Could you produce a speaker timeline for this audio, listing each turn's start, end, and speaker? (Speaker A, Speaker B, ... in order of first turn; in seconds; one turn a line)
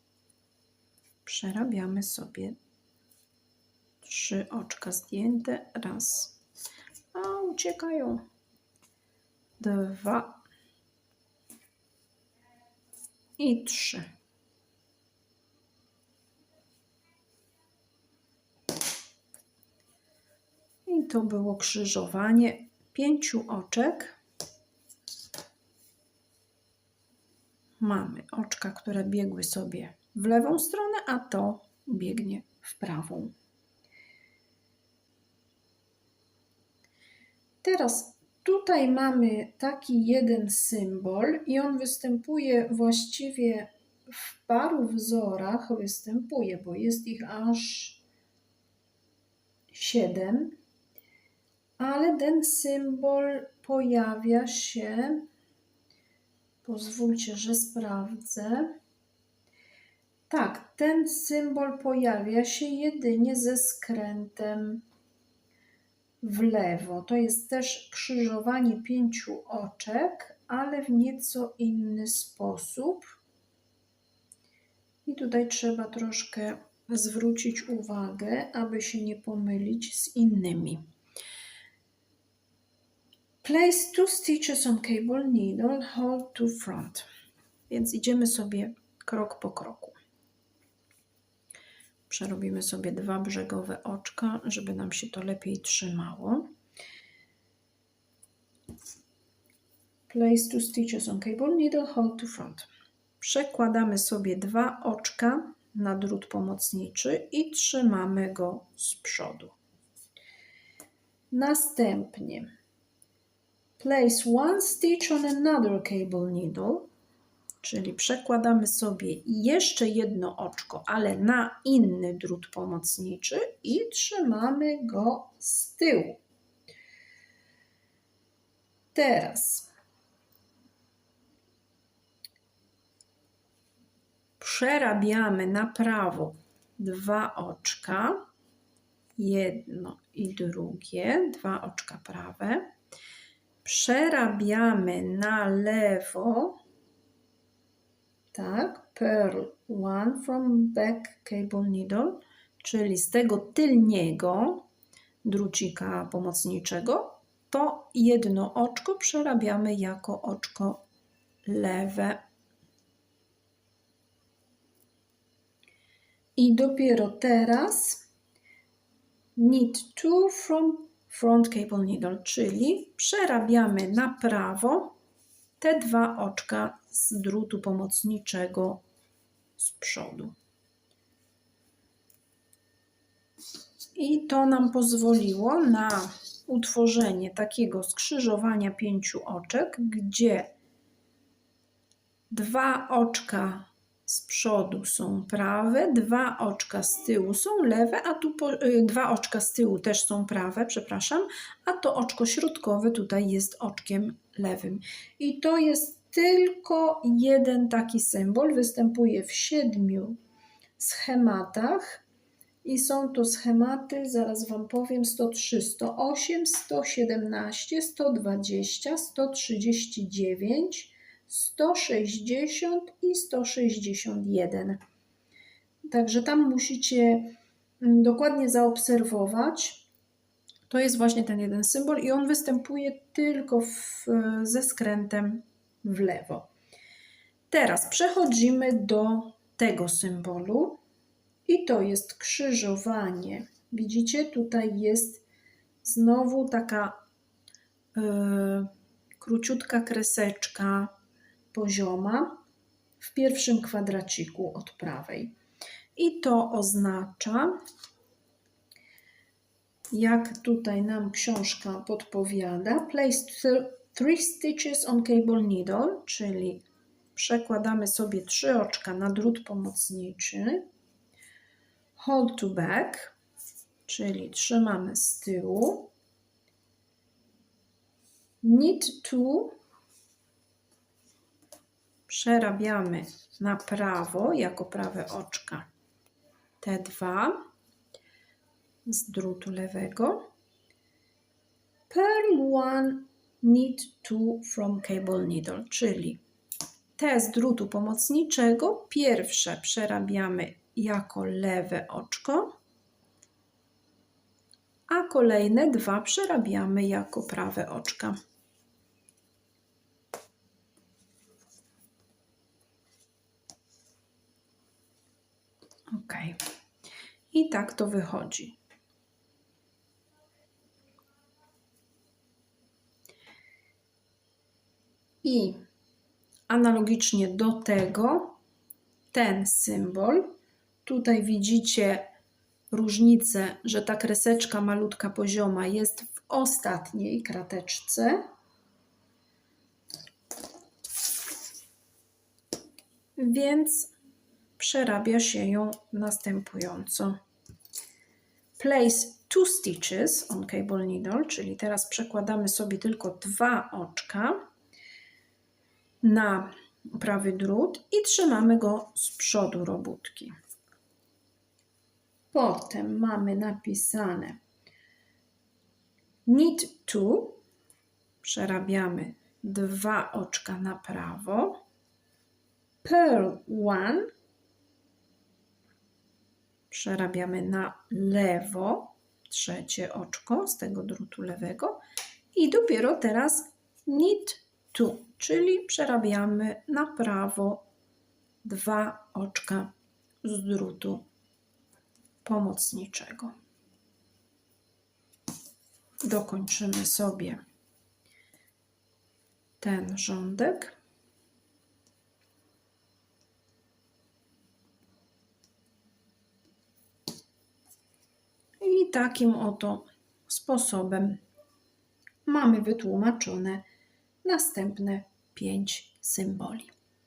Speaker A: 1.2-2.6
Speaker A: 4.0-6.4
Speaker A: 7.1-8.2
Speaker A: 9.6-10.4
Speaker A: 13.4-14.0
Speaker A: 20.9-24.2
Speaker A: 27.8-33.3
Speaker A: 37.6-48.0
Speaker A: 49.7-50.6
Speaker A: 51.8-55.2
Speaker A: 56.6-58.7
Speaker A: 60.3-64.8
Speaker A: 66.2-73.2
Speaker A: 75.0-80.8
Speaker A: 83.4-87.0
Speaker A: 87.7-90.0
Speaker A: 92.1-96.5
Speaker A: 100.1-102.7
Speaker A: 103.2-109.5
Speaker A: 111.3-112.5
Speaker A: 113.8-116.9
Speaker A: 117.6-126.2
Speaker A: 128.9-129.7
Speaker A: 134.4-138.2
Speaker A: 139.2-142.7
Speaker A: 143.6-146.6
Speaker A: 148.3-154.7
Speaker A: 155.2-160.8
Speaker A: 161.4-162.2
Speaker A: 166.3-168.1
Speaker A: 169.3-175.0
Speaker A: 175.6-178.8
Speaker A: 179.6-180.3
Speaker A: 183.9-190.5
Speaker A: 192.3-210.2
Speaker A: 210.8-212.0
Speaker A: 212.6-224.8
Speaker A: 225.8-229.8
Speaker A: 230.7-236.5
Speaker A: 237.5-240.8
Speaker A: 241.5-245.2
Speaker A: 245.8-246.9
Speaker A: 247.9-250.9
Speaker A: 251.5-252.4
Speaker A: 253.0-255.3
Speaker A: 255.9-257.6
Speaker A: 259.9-270.6
Speaker A: 272.0-273.1
Speaker A: 273.9-275.9
Speaker A: 278.4-279.5
Speaker A: 282.1-285.6
Speaker A: 286.6-287.4
Speaker A: 288.8-290.3
Speaker A: 291.9-296.2
Speaker A: 297.0-302.5
Speaker A: 304.9-308.1
Speaker A: 315.9-316.4
Speaker A: 317.3-318.6
Speaker A: 325.2-325.6
Speaker A: 326.5-328.4
Speaker A: 329.1-330.3
Speaker A: 330.8-332.1
Speaker A: 332.7-338.2
Speaker A: 343.2-343.9
Speaker A: 344.6-347.2
Speaker A: 348.6-354.4
Speaker A: 356.0-360.3
Speaker A: 362.3-364.4
Speaker A: 366.2-367.4
Speaker A: 368.2-371.6
Speaker A: 372.8-374.1
Speaker A: 376.7-381.8
Speaker A: 382.3-387.6
Speaker A: 388.4-389.7
Speaker A: 390.2-391.0
Speaker A: 392.2-393.3
Speaker A: 396.0-397.4
Speaker A: 399.6-400.7
Speaker A: 408.6-411.2
Speaker A: 412.2-413.6
Speaker A: 414.2-416.7